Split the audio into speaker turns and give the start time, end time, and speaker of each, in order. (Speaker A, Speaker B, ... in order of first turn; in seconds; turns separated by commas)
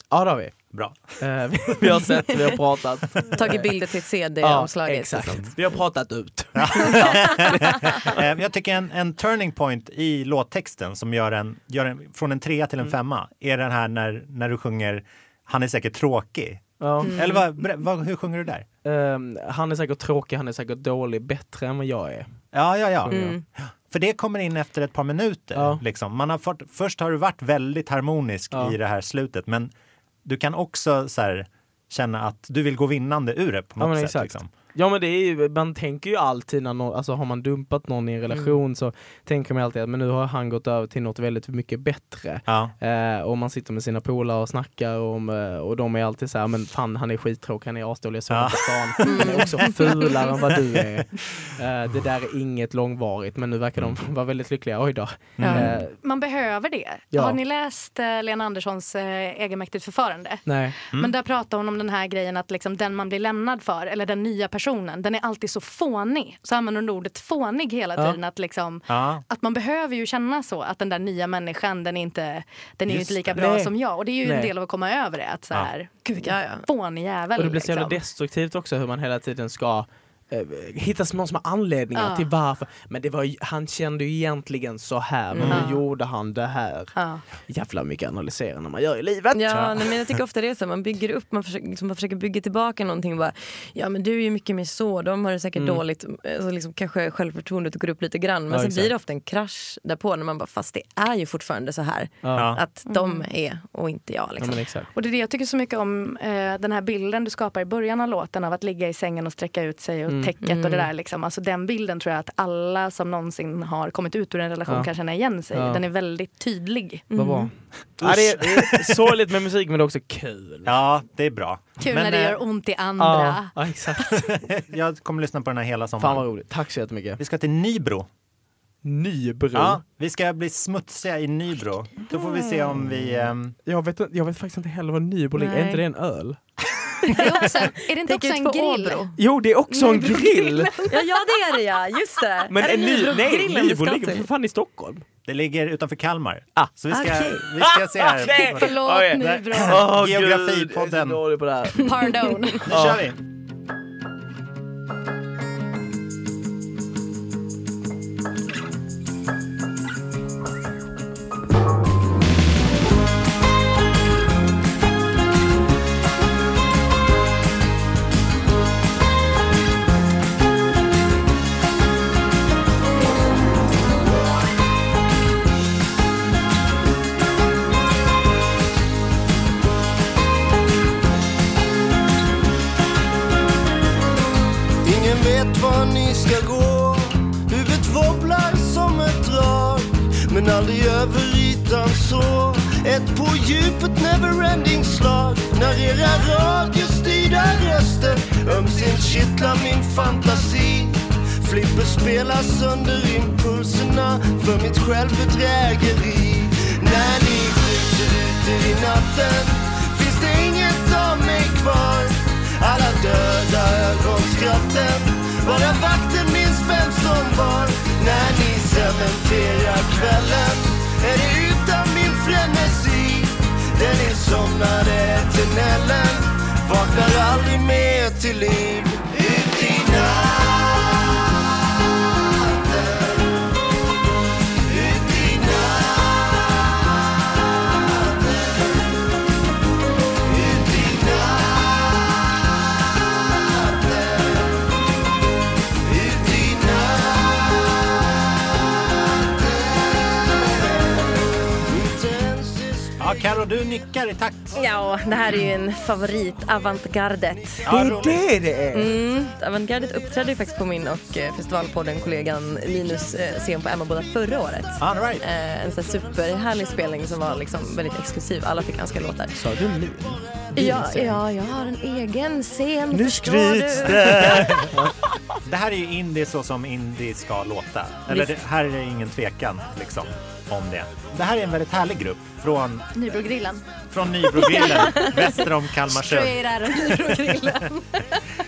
Speaker A: 0.1-0.6, Speaker B: 0.7-1.1, Speaker A: 1.2-3.7, Speaker C: 3.3-5.6, Speaker A: 4.4-8.1, Speaker B: 6.5-18.6, Speaker C: 6.9-7.4, Speaker A: 16.8-17.2, Speaker C: 17.0-17.4, Speaker A: 18.8-22.3, Speaker B: 22.5-29.7, Speaker A: 23.0-23.3, Speaker C: 23.1-23.4, Speaker A: 25.5-25.8, Speaker A: 28.5-28.8, Speaker B: 30.2-34.5, Speaker A: 33.8-56.0, Speaker B: 42.5-42.7, Speaker B: 48.3-49.6, Speaker C: 49.0-50.1, Speaker B: 55.4-55.8, Speaker C: 55.4-55.7, Speaker D: 56.0-78.0, Speaker A: 57.1-57.4, Speaker A: 60.5-60.8, Speaker B: 68.9-69.2, Speaker B: 72.9-73.4, Speaker A: 73.3-74.5, Speaker C: 76.2-76.7, Speaker A: 77.3-86.9, Speaker D: 81.9-82.3, Speaker C: 85.3-85.7, Speaker B: 85.4-85.6, Speaker D: 85.5-85.8, Speaker D: 87.0-87.2, Speaker A: 87.5-89.6, Speaker C: 89.3-104.7, Speaker A: 95.5-95.8, Speaker A: 98.5-98.9, Speaker A: 102.2-102.5, Speaker B: 102.3-102.6, Speaker D: 102.9-103.2, Speaker A: 104.4-104.9, Speaker D: 104.9-117.0, Speaker A: 110.1-110.3, Speaker C: 110.4-110.8, Speaker A: 115.5-115.8, Speaker C: 117.1-117.5, Speaker A: 117.1-120.7, Speaker B: 118.0-119.1, Speaker B: 120.6-122.4, Speaker D: 121.8-123.5, Speaker A: 123.0-124.2, Speaker B: 124.1-126.3, Speaker A: 126.0-127.2, Speaker B: 127.2-128.1, Speaker A: 128.8-129.8, Speaker B: 129.5-133.6, Speaker A: 133.6-136.4, Speaker C: 135.4-135.8, Speaker C: 137.1-137.4, Speaker D: 137.1-139.1, Speaker C: 138.0-139.1, Speaker A: 139.2-140.9, Speaker D: 139.8-140.9, Speaker C: 140.9-144.3, Speaker A: 142.5-145.0, Speaker B: 145.3-151.2, Speaker C: 146.9-147.4, Speaker A: 147.6-151.8, Speaker D: 148.4-149.9, Speaker D: 151.8-152.6, Speaker C: 152.2-152.5, Speaker B: 152.7-153.2, Speaker A: 152.7-153.0, Speaker E: 184.8-231.3, Speaker E: 232.2-233.3, Speaker E: 234.7-236.7, Speaker E: 237.8-238.6, Speaker E: 240.2-242.4, Speaker E: 243.3-244.6, Speaker E: 245.8-247.8, Speaker E: 249.3-253.0, Speaker B: 253.0-254.6, Speaker C: 254.5-257.7, Speaker B: 257.6-258.2, Speaker A: 257.7-258.9, Speaker C: 258.7-269.4, Speaker B: 264.8-265.2, Speaker A: 269.4-271.2, Speaker C: 270.5-274.6, Speaker A: 272.9-274.9, Speaker B: 274.2-274.7, Speaker B: 275.4-282.9, Speaker D: 282.9-283.6, Speaker B: 283.9-287.4, Speaker D: 284.3-285.2, Speaker D: 285.9-288.2